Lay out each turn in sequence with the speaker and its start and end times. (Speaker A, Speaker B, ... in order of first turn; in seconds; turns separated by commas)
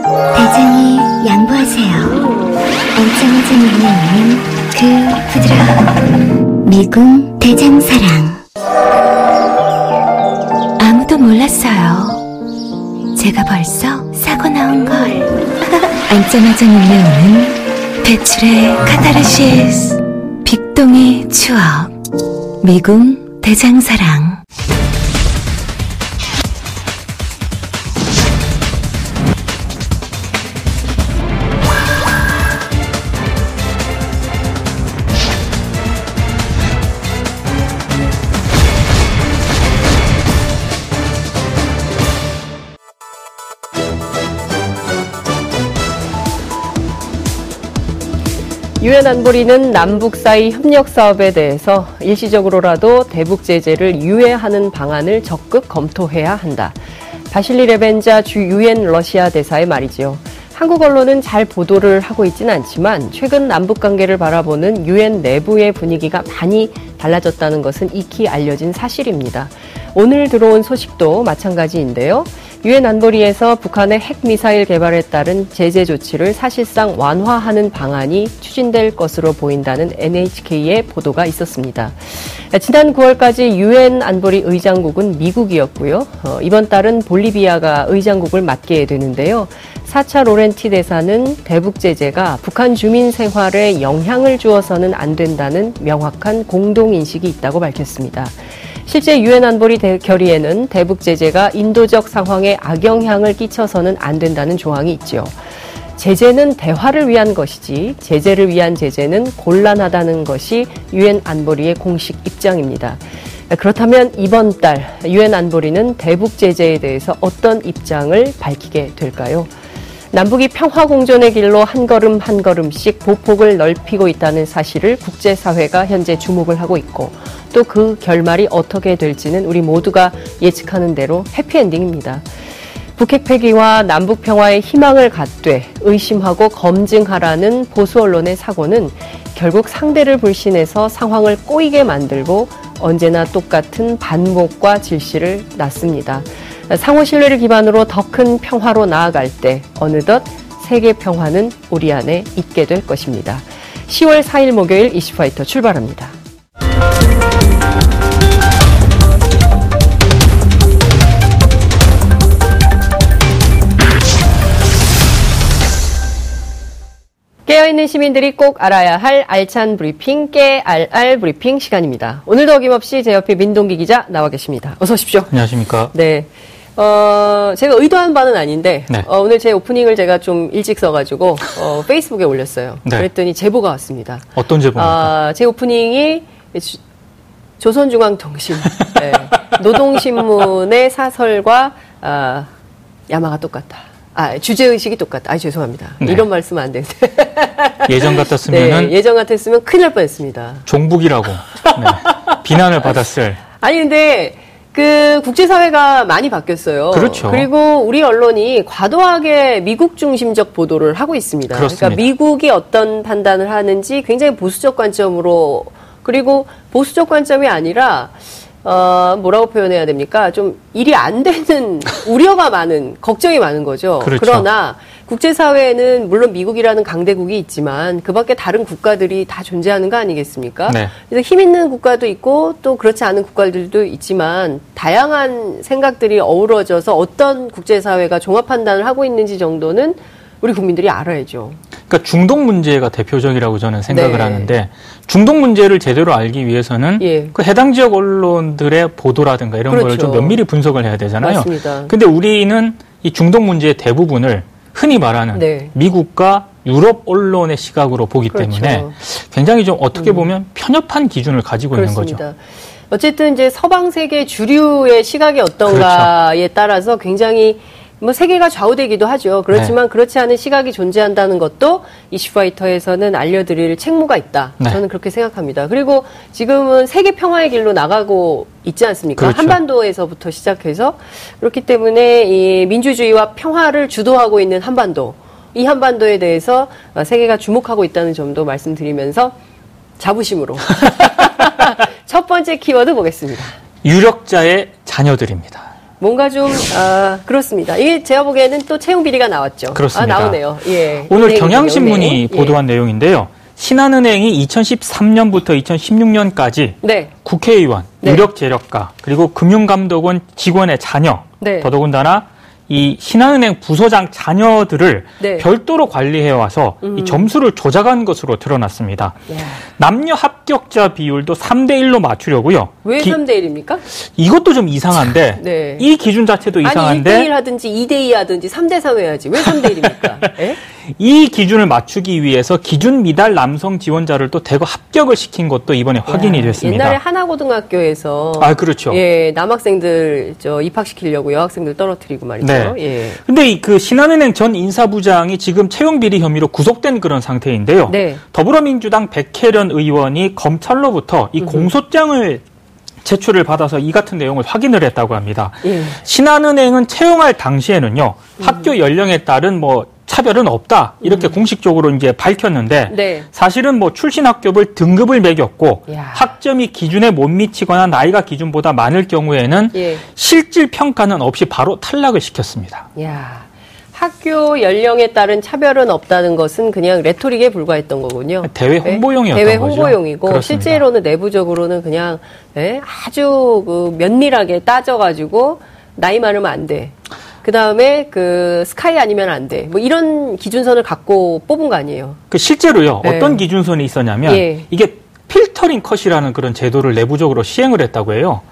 Speaker A: 0.3-2.3, Speaker A: 3.0-6.0, Speaker A: 6.6-8.4, Speaker A: 10.8-12.2, Speaker A: 13.2-15.3, Speaker A: 16.1-21.9, Speaker A: 22.6-24.4, Speaker B: 48.8-56.8, Speaker B: 57.3-98.3, Speaker B: 98.9-105.3, Speaker B: 106.0-119.5, Speaker B: 120.1-132.2, Speaker B: 133.0-156.2, Speaker B: 167.5-175.3, Speaker C: 175.3-175.9, Speaker B: 175.9-186.8, Speaker C: 184.4-185.1, Speaker B: 187.6-192.5, Speaker B: 193.1-200.7, Speaker C: 197.9-198.9, Speaker C: 200.7-203.4, Speaker B: 201.6-202.6, Speaker B: 203.6-241.6, Speaker C: 206.9-207.5, Speaker C: 211.5-212.1, Speaker C: 224.0-224.5, Speaker C: 241.9-262.2, Speaker B: 243.9-244.5, Speaker B: 247.0-247.3, Speaker B: 249.7-250.4, Speaker B: 251.2-251.9, Speaker B: 255.3-255.7, Speaker B: 258.3-258.9, Speaker B: 261.7-262.4, Speaker B: 262.9-289.4, Speaker C: 265.6-266.1, Speaker C: 279.2-279.6, Speaker B: 290.0-293.6, Speaker C: 293.8-295.7, Speaker B: 296.0-302.6, Speaker C: 299.7-300.4, Speaker C: 301.1-319.2, Speaker B: 306.8-307.1, Speaker B: 311.4-311.7, Speaker B: 315.2-315.5, Speaker B: 316.8-317.3, Speaker B: 319.3-319.6, Speaker C: 319.7-323.2, Speaker B: 322.8-323.8, Speaker C: 323.9-327.3, Speaker B: 325.4-325.9, Speaker B: 326.6-330.6, Speaker C: 329.4-330.3, Speaker C: 330.9-337.0, Speaker B: 336.1-343.2, Speaker C: 338.4-339.0, Speaker C: 342.4-352.4, Speaker B: 347.9-348.2, Speaker B: 351.4-351.7, Speaker C: 353.0-372.9, Speaker B: 355.6-356.0, Speaker B: 358.4-358.7, Speaker B: 361.0-361.3, Speaker B: 362.9-363.3, Speaker B: 365.9-366.3, Speaker B: 369.7-370.0, Speaker B: 373.0-392.2, Speaker C: 378.4-380.8, Speaker C: 392.3-398.4, Speaker B: 393.0-393.4, Speaker B: 394.2-394.7